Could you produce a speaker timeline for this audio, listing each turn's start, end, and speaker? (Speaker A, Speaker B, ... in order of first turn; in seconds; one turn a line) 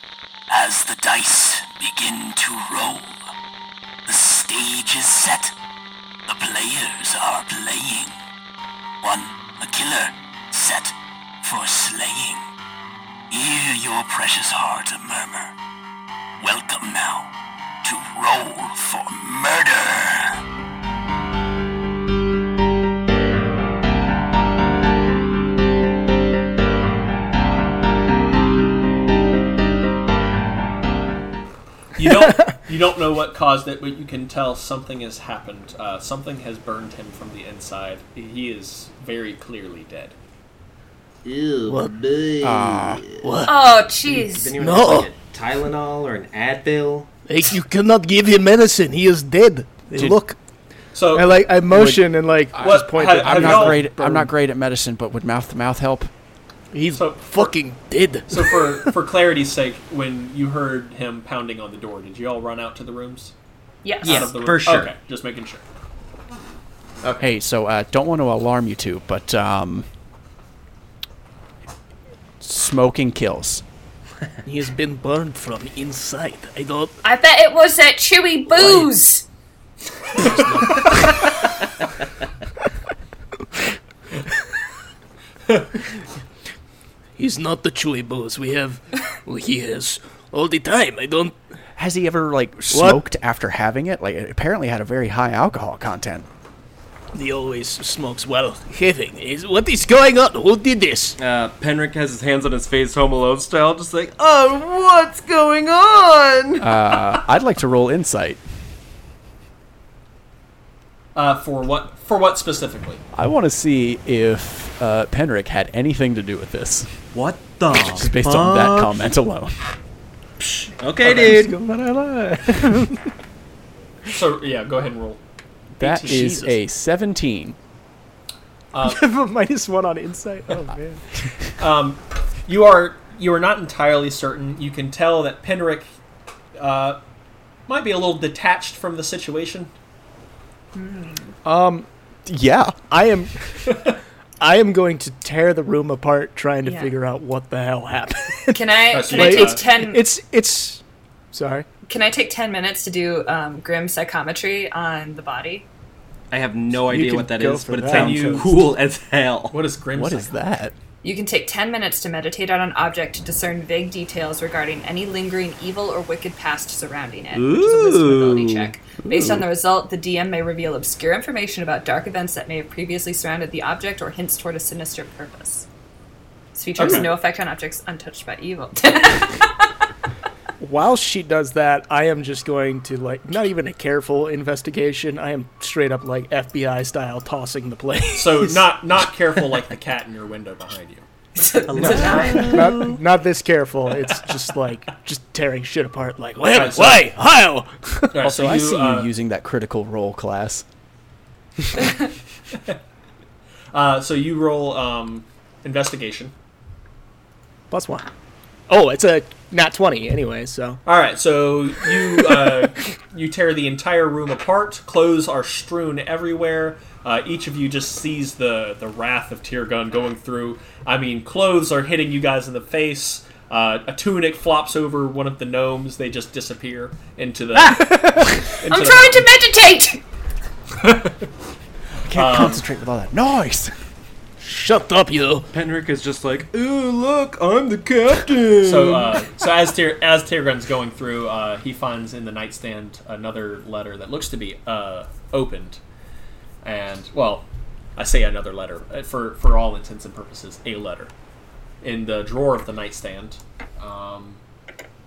Speaker A: 0.5-3.2
Speaker A: 4.1-5.5
Speaker A: 6.3-8.2
Speaker A: 9.0-12.4
Speaker A: 13.3-15.5
Speaker A: 16.4-17.3
Speaker A: 17.8-20.4
Speaker B: 32.0-40.1
Speaker C: 32.0-32.5
Speaker D: 41.2-43.3
Speaker E: 41.7-42.0
Speaker F: 42.4-43.0
Speaker E: 43.2-43.5
Speaker G: 43.5-44.5
Speaker D: 44.1-47.1
Speaker E: 44.6-45.1
Speaker E: 47.3-50.1
Speaker C: 49.9-50.4
Speaker B: 50.9-51.4
Speaker C: 51.1-54.3
Speaker F: 51.7-56.1
Speaker B: 52.6-53.9
Speaker E: 56.7-58.9
Speaker B: 56.9-57.5
Speaker B: 58.3-63.3
Speaker G: 63.8-64.3
Speaker D: 64.0-64.9
Speaker B: 64.0-65.6
Speaker B: 67.0-67.3
Speaker F: 67.2-69.9
Speaker F: 72.4-73.6
Speaker E: 74.5-76.9
Speaker G: 77.0-79.2
Speaker B: 78.6-78.8
Speaker E: 80.2-81.2
Speaker E: 87.2-91.4
Speaker F: 91.8-96.3
Speaker E: 92.7-93.0
Speaker E: 97.1-101.2
Speaker D: 101.2-106.7
Speaker F: 106.6-108.4
Speaker B: 111.2-113.0
Speaker F: 113.1-117.0
Speaker D: 117.1-119.0
Speaker F: 117.7-119.7
Speaker D: 120.4-121.6
Speaker C: 121.0-123.0
Speaker B: 124.1-125.2
Speaker B: 125.8-126.4
Speaker F: 125.8-127.6
Speaker E: 126.0-126.6
Speaker B: 128.7-129.0
Speaker C: 128.8-131.0
Speaker B: 131.6-135.9
Speaker B: 136.6-137.0
Speaker B: 137.7-139.7
Speaker G: 140.7-141.4
Speaker C: 141.4-141.9
Speaker F: 142.3-142.8
Speaker C: 142.9-151.7
Speaker B: 143.7-143.9
Speaker G: 146.7-146.9
Speaker G: 148.5-150.1
Speaker B: 148.9-149.6
Speaker G: 151.9-155.7
Speaker D: 156.3-159.6
Speaker C: 156.8-158.6
Speaker B: 157.9-158.6
Speaker B: 159.5-160.3
Speaker F: 159.9-160.8
Speaker G: 161.0-175.7
Speaker D: 167.3-168.7
Speaker F: 169.0-169.4
Speaker G: 176.6-179.7
Speaker B: 176.8-177.1
Speaker C: 180.6-188.7
Speaker B: 188.2-191.0
Speaker G: 191.3-192.8
Speaker D: 191.7-193.0
Speaker C: 191.8-196.4
Speaker E: 196.3-197.7
Speaker B: 196.5-197.1
Speaker B: 198.1-199.1
Speaker F: 198.2-200.7
Speaker B: 203.7-206.3
Speaker C: 207.7-208.1
Speaker C: 208.7-210.8
Speaker B: 210.8-229.3
Speaker C: 227.6-228.4
Speaker G: 228.7-230.0
Speaker B: 230.8-231.2
Speaker F: 232.1-233.7
Speaker B: 232.1-232.6
Speaker E: 234.4-235.5
Speaker D: 235.5-239.2
Speaker B: 238.6-245.8
Speaker B: 246.6-251.1
Speaker B: 251.8-254.4